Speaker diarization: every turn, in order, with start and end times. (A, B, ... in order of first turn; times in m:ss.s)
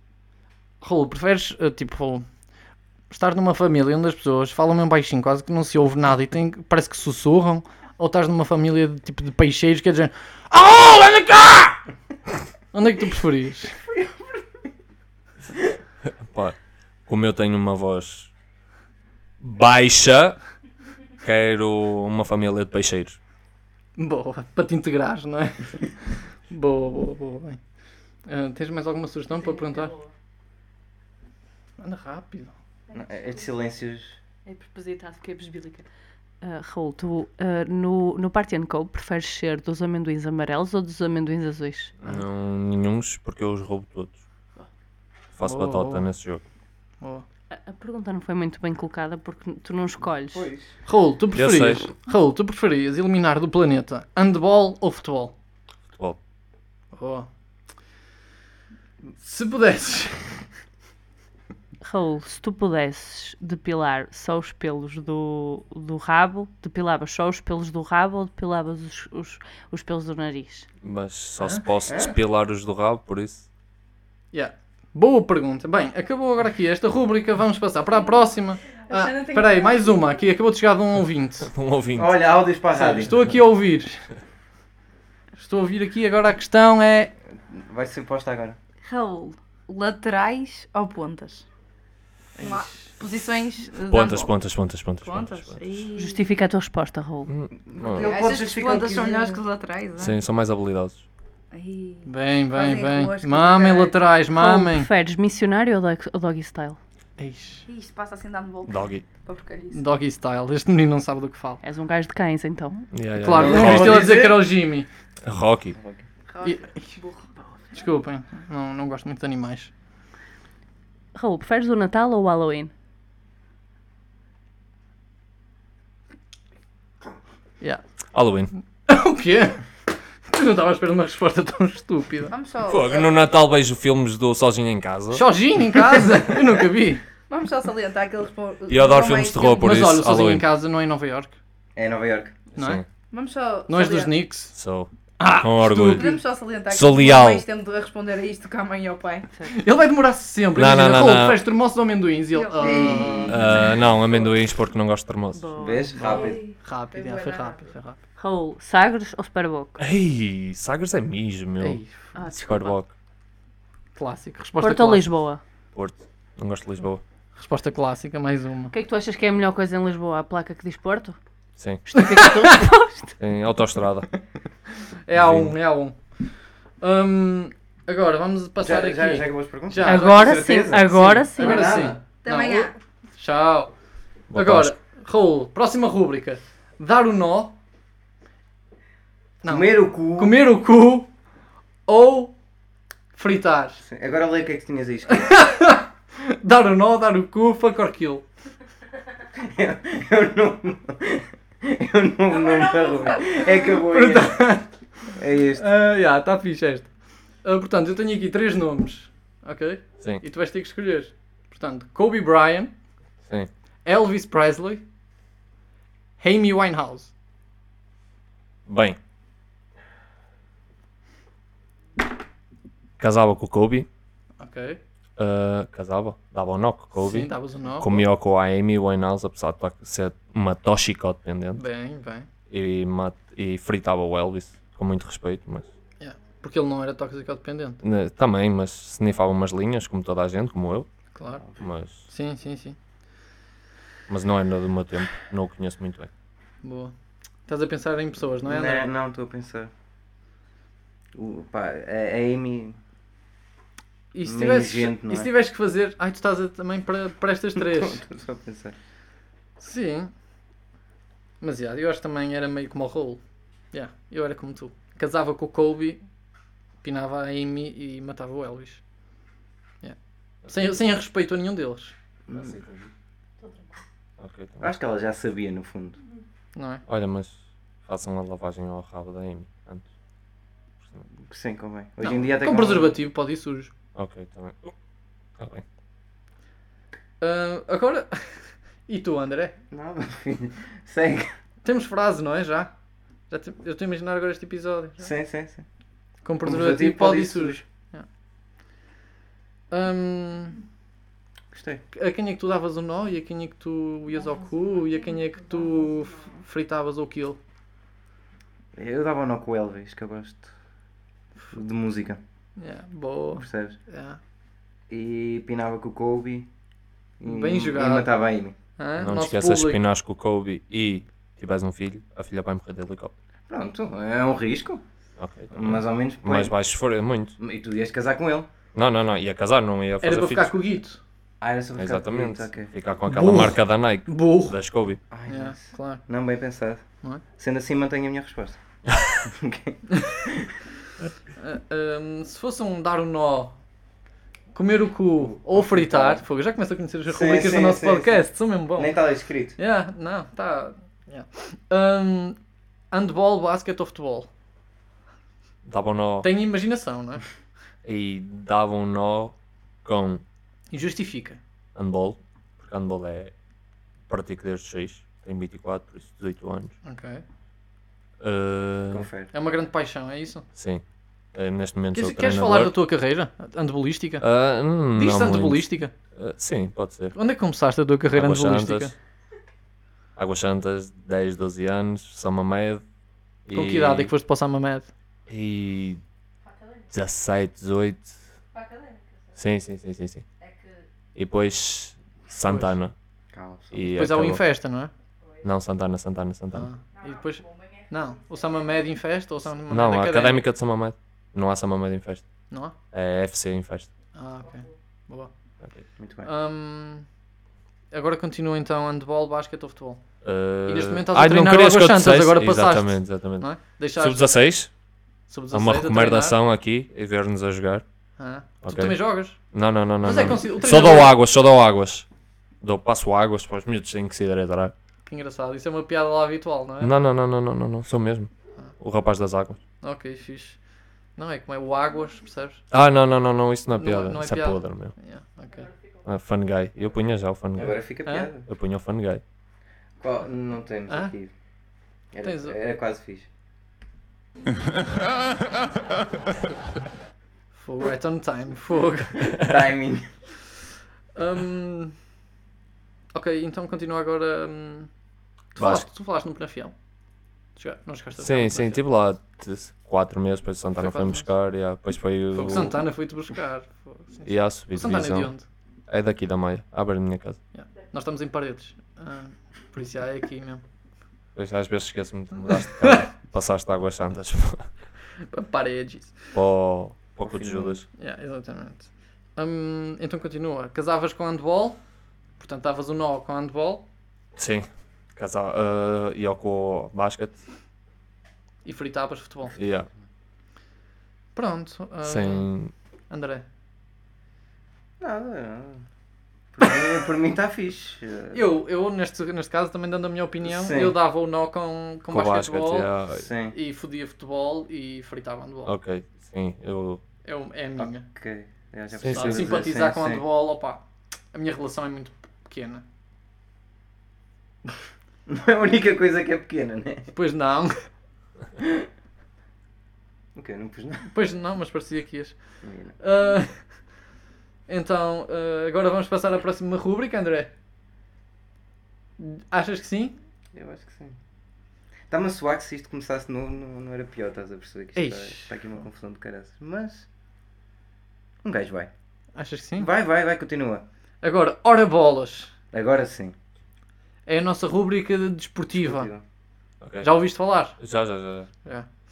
0:00.8-0:02.2 A
0:03.1-0:11.8 A
0:12.7-0:13.7 A
0:16.2-0:16.6 B
0:17.1-0:18.3 B
0:19.4-0:20.4 B
0:21.2-0:23.2 B
0:24.0-0:27.6 A
0:28.3-0:29.9 A
0:29.3-0:30.1 C
0:31.8-0:32.5 A
0:32.9-0:33.5 D
0:32.9-0:34.2 E
0:34.4-0:35.9 C
0:36.4-0:41.9 C
0:42.0-0:44.2 B
0:45.3-0:46.4 B
0:45.4-0:46.0 A
0:47.5-0:50.5 C
0:50.3-0:50.7 E
0:50.8-0:55.3 A
0:51.3-0:51.8 B
0:55.9-0:56.2 B
0:56.9-0:57.3 A
0:59.2-1:00.4 A
1:01.8-1:10.7 C
1:10.8-1:13.4 B
1:11.4-1:11.6 A
1:11.9-1:12.2 E
1:14.3-1:21.5 A
1:18.9-1:20.1 D
1:21.4-1:22.2 B
1:21.9-1:23.2 E
1:22.7-1:24.0 A
1:25.4-1:27.1 A
1:27.5-1:28.6 E
1:28.8-1:31.5 D
1:32.4-1:32.9 A
1:32.4-1:34.3 D
1:33.8-1:35.6 B
1:35.0-1:36.3 D
1:36.0-1:37.3 C
1:37.3-1:38.1 B
1:37.6-1:39.4 E
1:37.9-1:40.1 D
1:40.0-1:41.0 B
1:41.5-1:44.0 D
1:42.0-1:44.9 A
1:44.3-1:46.8 C
1:47.2-1:47.6 A
1:47.6-1:49.8 D
1:48.6-1:49.0 B
1:49.7-1:51.6 A
1:51.6-1:52.9 C
1:52.9-1:54.2 B
1:53.2-1:54.9 A
1:53.3-1:54.5 E
1:55.2-1:55.8 B
1:55.7-1:56.0 E
1:56.3-1:57.3 D
1:56.4-1:57.0 A
1:57.7-1:59.7 A
2:01.1-2:02.7 C
2:08.1-2:08.5 B
2:08.9-2:09.6 A
2:10.3-2:12.3 A
2:12.3-2:13.1 D
2:12.6-2:15.2 B
2:15.1-2:17.0 A
2:17.3-2:19.8 D
2:18.7-2:20.5 B
2:19.6-2:21.3 A
2:21.7-2:22.4 E
2:22.5-2:22.8 B
2:22.6-2:22.8 A
2:23.1-2:24.2 D
2:23.7-2:24.5 A
2:24.5-2:26.2 B
2:25.2-2:26.2 A
2:25.9-2:29.3 D
2:26.7-2:27.4 B
2:29.4-2:33.4 A
2:30.5-2:31.4 B
2:32.3-2:34.2 D
2:32.6-2:33.7 E
2:33.2-2:35.4 B
2:35.3-2:36.2 C
2:35.5-2:36.4 E
2:36.0-2:38.0 A
2:36.0-2:37.7 D
2:38.2-2:39.8 C
2:39.8-2:41.8 B
2:41.6-2:42.2 A
2:42.1-2:42.8 C
2:42.3-2:42.9 B
2:43.9-2:45.1 A
2:44.6-2:45.4 C
2:45.7-2:47.0 B
2:47.4-2:48.7 A
2:48.7-2:51.2 C
2:51.6-2:51.8 B
2:51.8-2:53.1 C
2:52.0-2:52.6 A
2:53.2-2:54.1 B
2:55.0-2:56.0 A
2:55.1-2:55.5 B
2:56.8-3:00.4 A
2:58.6-3:02.0 E
2:59.8-3:01.8 C
3:00.9-3:03.7 A
3:01.6-3:02.7 D
3:04.3-3:04.7 B
3:04.3-3:07.5 A
3:09.4-3:11.1 A
3:09.4-3:10.4 E
3:11.9-3:12.3 A
3:13.1-3:13.8 A
3:13.8-3:15.4 E
3:15.1-3:18.2 A
3:19.4-3:24.4 E
3:23.8-3:24.7 A
3:25.1-3:25.7 E
3:25.6-3:26.9 A
3:27.4-3:32.7 A
3:33.8-3:34.8 A
3:36.2-3:37.1 A
3:38.7-3:39.0 B
3:43.0-3:43.9 B
3:44.4-3:44.8 A
3:45.2-3:51.6 B
3:47.0-3:48.0 A
3:51.6-3:52.3 A
3:52.5-3:55.7 B
3:56.0-3:57.8 A
3:57.8-4:00.9 B
4:01.1-4:01.4 A
4:01.4-4:01.7 E
4:01.6-4:02.0 B
4:02.1-4:02.8 A
4:04.1-4:06.1 B
4:06.6-4:06.9 A
4:07.5-4:08.9 A
4:08.4-4:09.7 E
4:11.1-4:12.8 E
4:14.1-4:18.0 A
4:14.2-4:15.3 E
4:17.6-4:18.8 E
4:19.6-4:20.1 A
4:21.4-4:23.2 A
4:23.7-4:26.0 A
4:26.8-4:28.8 A
4:30.4-4:30.7 B
4:30.5-4:31.9 A
4:32.3-4:32.6 E
4:32.3-4:32.9 B
4:34.2-4:34.7 B
4:34.6-4:36.0 E
4:36.5-4:36.8 A
4:36.9-4:39.8 B
4:41.2-4:42.9 E
4:42.0-4:43.7 A
4:43.9-4:44.7 B
4:45.4-4:45.6 B
4:47.2-4:49.6 A
4:49.7-4:51.3 E
4:51.6-4:52.7 A
4:53.3-4:55.1 A
4:55.0-4:55.6 E
4:56.2-4:58.0 A
4:56.4-4:57.6 E
4:59.7-5:00.6 A
5:01.5-5:01.8 E
5:01.9-5:07.4 A
5:08.7-5:10.5 E
5:11.5-5:12.2 E
5:12.6-5:14.2 A
5:13.4-5:13.8 E
5:14.9-5:16.5 E
5:17.2-5:18.6 E
5:17.2-5:18.1 A
5:18.8-5:19.8 A
5:19.0-5:23.1 B
5:23.5-5:24.8 E
5:25.2-5:27.4 B
5:25.5-5:26.5 E
5:27.4-5:28.5 E
5:28.7-5:30.6 B
5:30.0-5:31.0 A
5:31.4-5:32.7 E
5:31.8-5:35.0 B
5:33.1-5:34.6 A
5:35.1-5:36.8 E
5:35.3-5:36.0 A
5:37.4-5:38.6 E
5:38.9-5:39.2 B
5:39.2-5:40.5 E
5:39.9-5:40.2 A
5:41.4-5:43.5 A
5:44.5-5:49.0 A
5:45.2-5:46.2 E
5:47.1-5:49.6 E
5:49.6-5:52.4 A
5:52.9-5:54.3 A
5:55.6-5:56.3 B
5:56.2-5:57.2 A
5:57.8-5:59.3 B
5:59.8-6:00.2 B
6:00.7-6:01.4 A
6:01.7-6:03.3 B
6:04.1-6:06.7 B
6:06.8-6:07.2 A
6:08.2-6:09.1 B
6:08.9-6:09.3 E
6:09.3-6:10.4 A
6:10.6-6:10.8 B
6:11.3-6:12.7 B
6:11.9-6:14.2 A
6:14.2-6:17.2 B
6:14.9-6:15.9 A
6:17.1-6:18.9 A
6:18.1-6:18.9 B
6:20.2-6:22.8 B
6:23.5-6:24.1 B
6:23.5-6:24.9 A
6:25.3-6:26.0 B
6:26.4-6:26.9 D
6:26.9-6:28.2 B
6:28.5-6:29.4 D
6:29.4-6:30.2 B
6:30.4-6:30.9 D
6:31.1-6:32.9 B
6:32.4-6:32.7 A
6:33.3-6:33.9 E
6:33.7-6:34.4 B
6:33.9-6:34.9 A
6:35.4-6:36.7 B
6:36.5-6:40.4 A
6:36.9-6:38.9 D
6:39.7-6:42.2 B
6:42.9-6:43.9 B
6:44.1-6:45.3 A
6:44.5-6:44.7 D
6:46.0-6:46.3 E
6:46.2-6:47.0 A
6:47.9-6:50.0 A
6:50.2-6:54.7 B
6:50.7-6:54.3 A
6:55.3-6:56.4 A
6:55.5-6:57.8 B
6:58.2-6:59.4 A
6:58.6-7:02.0 B
7:00.0-7:01.1 A
7:02.6-7:04.7 B
7:05.0-7:06.9 A
7:06.8-7:09.6 B
7:09.8-7:10.6 A
7:11.2-7:12.6 A
7:12.7-7:14.9 B
7:13.8-7:15.7 A
7:16.0-7:17.8 B
7:17.6-7:18.5 E
7:18.0-7:18.3 A
7:18.5-7:19.2 B
7:20.0-7:21.3 E
7:22.1-7:23.3 E
7:22.2-7:22.6 A
7:27.6-7:29.4 A
7:29.3-7:30.1 E
7:31.2-7:31.9 A
7:33.1-7:34.9 A
7:35.5-7:36.7 A
7:35.6-7:35.8 B
7:37.6-7:38.8 A
7:38.2-7:42.8 B
7:40.8-7:41.3 A
7:42.3-7:45.4 A
7:44.2-7:45.3 B
7:45.9-7:47.4 B
7:47.5-7:50.6 A
7:51.4-7:54.7 B
7:52.4-7:53.0 A
7:55.3-7:56.3 A
7:56.3-7:57.8 B
7:57.2-7:57.8 E
7:58.0-8:01.8 A
8:02.4-8:03.8 A
8:04.4-8:07.4 B
8:08.6-8:09.6 A
8:09.6-8:09.9 B
8:11.3-8:12.5 A
8:12.0-8:12.7 B
8:13.1-8:13.4 A
8:15.0-8:15.8 E
8:16.5-8:18.5 E
8:18.3-8:22.9 A
8:20.4-8:21.0 E
8:22.1-8:23.2 B
8:23.1-8:23.6 E
8:23.5-8:25.7 A
8:25.6-8:27.0 B
8:27.2-8:28.0 A
8:27.8-8:30.2 E
8:28.9-8:29.6 B
8:29.1-8:32.8 A
8:35.2-8:37.1 E
8:37.1-8:37.7 A
8:38.6-8:38.9 E
8:40.3-8:41.1 E
8:41.1-8:42.4 A
8:42.6-8:43.0 E
8:43.0-8:43.5 A
8:44.7-8:47.5 A
8:49.2-8:50.2 A
8:50.5-8:51.2 E
8:52.1-8:57.1 E
8:55.0-8:55.5 A
8:58.4-8:58.9 E
8:59.4-8:59.9 A
8:59.8-9:00.8 E
9:01.2-9:02.5 A
9:02.7-9:03.4 E
9:04.2-9:06.1 A
9:05.7-9:06.2 E
9:06.8-9:07.2 B
9:07.0-9:07.8 A
9:07.8-9:08.5 B